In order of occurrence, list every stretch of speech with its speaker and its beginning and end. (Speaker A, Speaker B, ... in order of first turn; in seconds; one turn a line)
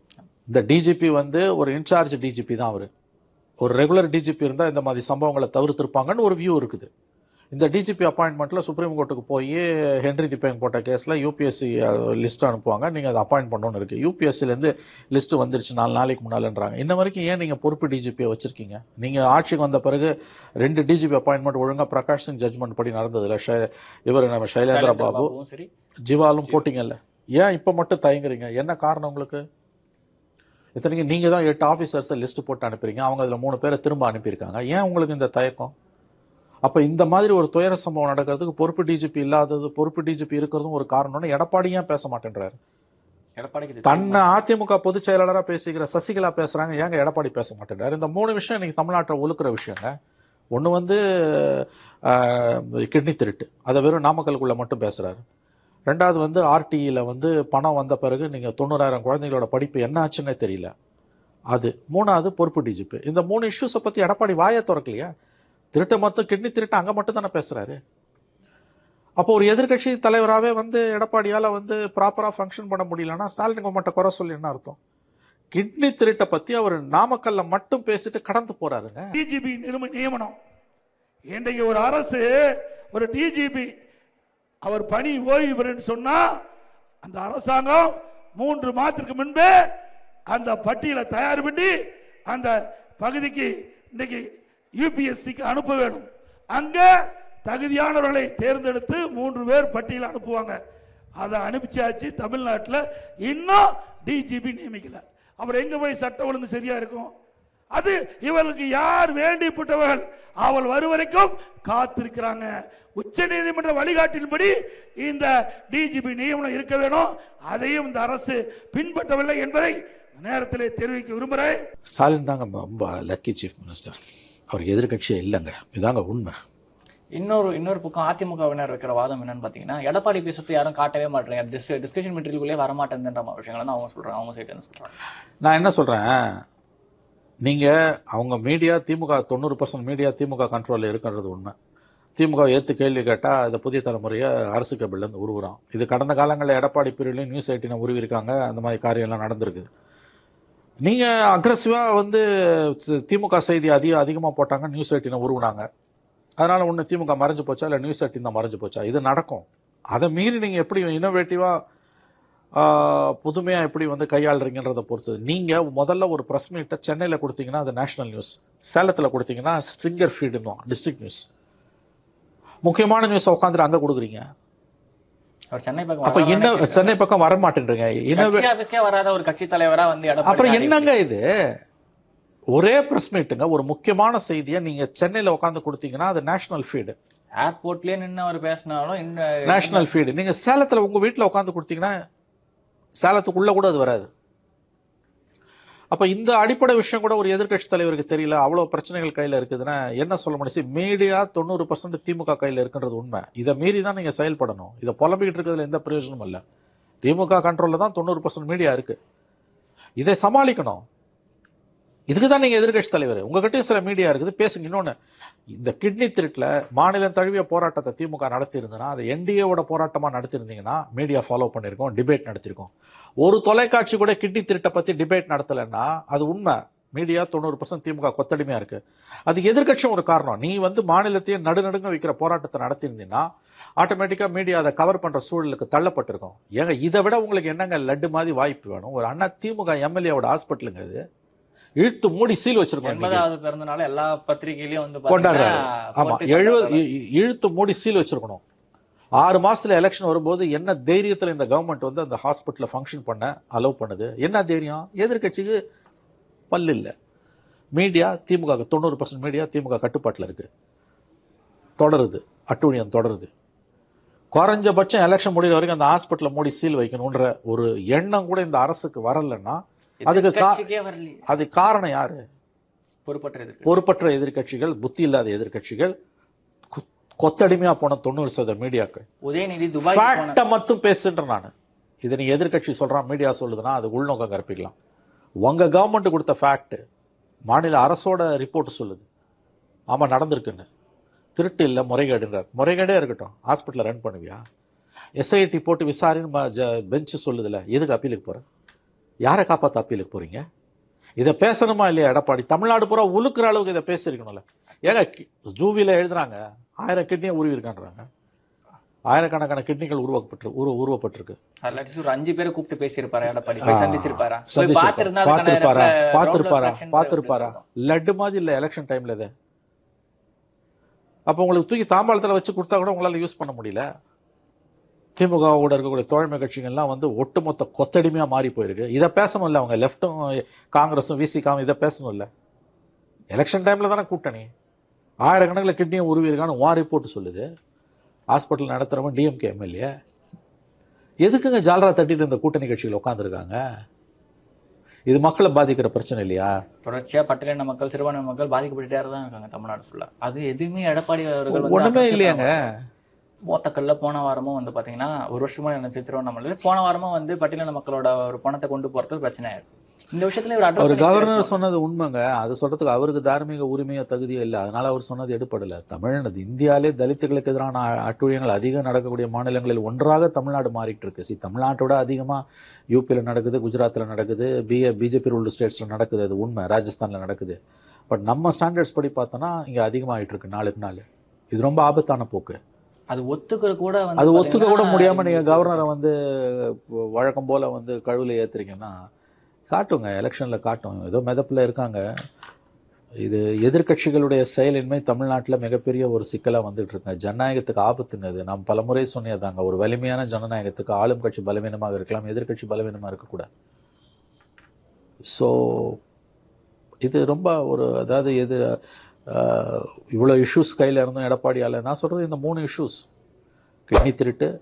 Speaker A: 0.5-2.9
Speaker A: 3.6-6.9
Speaker A: 7.5-20.1
Speaker A: 20.6-25.3
Speaker B: 24.7-25.7
Speaker A: 26.1-29.4
Speaker A: 30.8-35.7
Speaker A: 36.6-42.5
Speaker B: 43.4-44.2
Speaker A: 43.9-49.9
Speaker A: 50.5-55.2
Speaker A: 55.9-60.7
Speaker A: 61.5-65.1
Speaker A: 65.7-67.8
Speaker A: 69.2-74.8
Speaker A: 75.5-79.1
Speaker C: 79.2-80.4
Speaker C: 81.3-82.4
Speaker C: 82.9-83.7
Speaker C: 84.6-86.2
Speaker C: 87.0-89.5
Speaker C: 90.3-91.7
Speaker C: 92.3-94.2
Speaker C: 94.8-96.9
Speaker C: 97.5-100.6
Speaker C: 101.2-107.1
Speaker C: 107.7-121.6
Speaker A: 121.9-124.0
Speaker A: 124.5-126.3
Speaker B: 127.2-134.9
Speaker A: 135.4-136.2
Speaker A: 137.4-141.5
Speaker A: 142.2-149.7
Speaker A: 150.8-155.7
Speaker A: 156.4-161.5
Speaker A: 162.6-171.3
Speaker A: 172.7-174.2
Speaker B: 175.5-177.0
Speaker A: 176.1-178.5
Speaker B: 178.1-180.9
Speaker A: 180.2-181.2
Speaker A: 182.5-186.9
Speaker B: 187.4-189.9
Speaker A: 189.5-191.9
Speaker A: 193.0-194.1
Speaker A: 195.9-206.4
Speaker A: 207.0-209.0
Speaker A: 210.0-210.8
Speaker A: 212.1-214.9
Speaker A: 215.6-222.7
Speaker A: 223.2-233.2
Speaker A: 233.8-241.0
Speaker A: 241.8-243.2
Speaker B: 242.8-246.8
Speaker A: 245.1-248.4
Speaker A: 249.2-255.6
Speaker A: 256.5-256.9
Speaker A: 257.8-260.5
Speaker A: 261.8-263.3
Speaker A: 264.3-270.7
Speaker B: 270.1-271.2
Speaker A: 271.3-272.2
Speaker B: 273.1-273.8
Speaker A: 273.6-275.9
Speaker A: 276.7-279.1
Speaker B: 279.2-280.4
Speaker A: 279.9-281.5
Speaker A: 282.0-284.8
Speaker A: 285.4-286.8
Speaker A: 287.5-289.1
Speaker A: 289.9-290.7
Speaker A: 291.4-294.4
Speaker A: 295.2-298.4
Speaker A: 299.3-300.4
Speaker A: 301.2-308.1
Speaker A: 309.1-311.4
Speaker B: 311.6-317.6
Speaker A: 313.6-319.3
Speaker A: 321.3-323.9
Speaker A: 325.2-332.3
Speaker A: 333.3-334.5
Speaker A: 335.2-337.4
Speaker A: 338.3-339.9
Speaker A: 341.2-343.6
Speaker A: 345.1-346.5
Speaker B: 346.8-352.6
Speaker A: 351.5-352.7
Speaker B: 353.5-361.6
Speaker A: 360.8-377.6
Speaker A: 378.1-382.6
Speaker B: 383.1-385.9
Speaker A: 384.2-388.9
Speaker A: 389.7-392.0
Speaker A: 393.2-403.5
Speaker A: 405.3-406.0
Speaker A: 407.0-408.8
Speaker A: 409.3-413.1
Speaker A: 413.9-414.5